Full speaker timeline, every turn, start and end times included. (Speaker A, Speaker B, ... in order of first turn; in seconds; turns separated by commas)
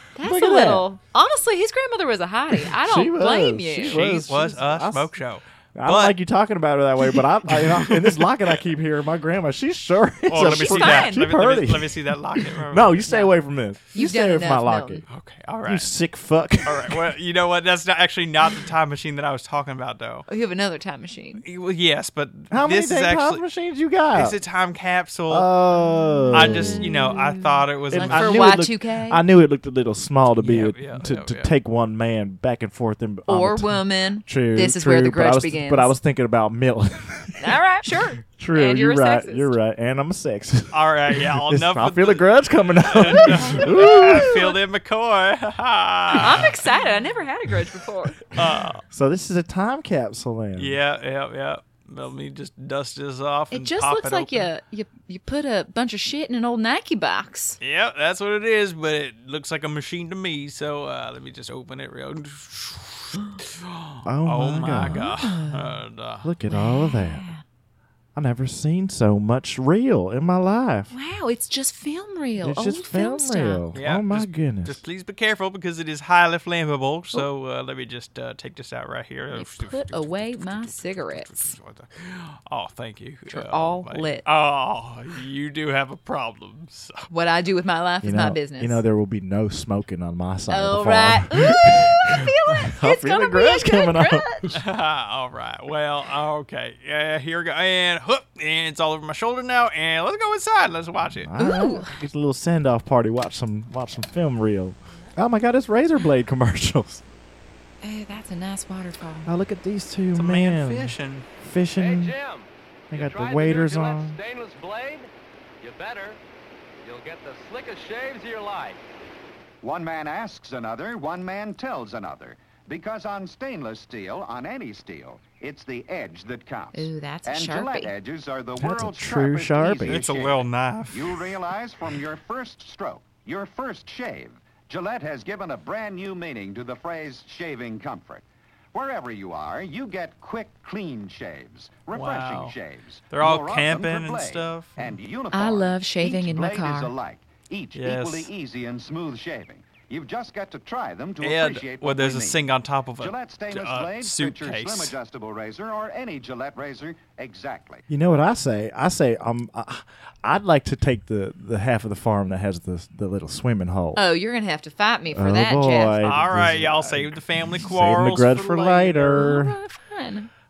Speaker A: 0.1-4.0, Speaker B: 0.2-0.8, Speaker B: 2.6-5.1, Speaker C: 3.9-6.2, Speaker B: 5.7-12.1, Speaker C: 7.5-8.5, Speaker C: 10.3-13.1, Speaker A: 10.4-11.2, Speaker B: 12.7-15.0, Speaker A: 13.1-13.3, Speaker A: 13.9-15.0, Speaker C: 15.1-15.9, Speaker B: 15.6-17.1, Speaker C: 16.6-20.2, Speaker A: 20.3-21.4, Speaker C: 21.4-23.4, Speaker B: 22.5-24.4, Speaker C: 24.1-25.5, Speaker B: 25.3-26.9, Speaker A: 25.8-29.2, Speaker C: 26.3-28.5, Speaker B: 27.9-44.5, Speaker C: 30.4-31.5, Speaker A: 33.3-35.9, Speaker A: 37.4-39.6, Speaker C: 40.7-46.5, Speaker A: 43.1-44.4, Speaker A: 46.2-48.2, Speaker C: 48.3-48.8, Speaker B: 48.4-50.8, Speaker C: 50.6-54.5, Speaker A: 53.5-57.6, Speaker C: 57.6-66.3, Speaker B: 64.0-65.1, Speaker A: 64.9-65.8, Speaker B: 66.2-67.2, Speaker A: 66.5-67.4, Speaker B: 68.1-70.9, Speaker A: 70.9-73.6, Speaker B: 72.4-74.8, Speaker C: 73.7-87.0, Speaker A: 79.3-81.5, Speaker A: 83.3-84.2, Speaker A: 87.1-88.8, Speaker B: 88.0-94.6, Speaker A: 90.5-94.5, Speaker C: 94.5-101.3, Speaker B: 101.2-107.0, Speaker A: 101.4-102.0, Speaker A: 107.8-109.3, Speaker B: 109.2-112.2, Speaker C: 110.1-111.3, Speaker D: 111.8-115.1, Speaker B: 112.9-114.2, Speaker D: 115.6-116.2, Speaker D: 116.8-118.8, Speaker E: 119.6-152.4, Speaker A: 126.7-127.9, Speaker B: 128.6-130.0, Speaker C: 129.8-131.2, Speaker C: 141.9-142.5, Speaker C: 143.1-145.0, Speaker A: 145.3-146.9, Speaker C: 147.7-148.3, Speaker C: 151.2-154.9, Speaker E: 153.0-157.8, Speaker B: 157.9-164.0, Speaker A: 163.9-166.0, Speaker B: 165.1-169.6, Speaker C: 166.0-169.3, Speaker A: 169.1-170.3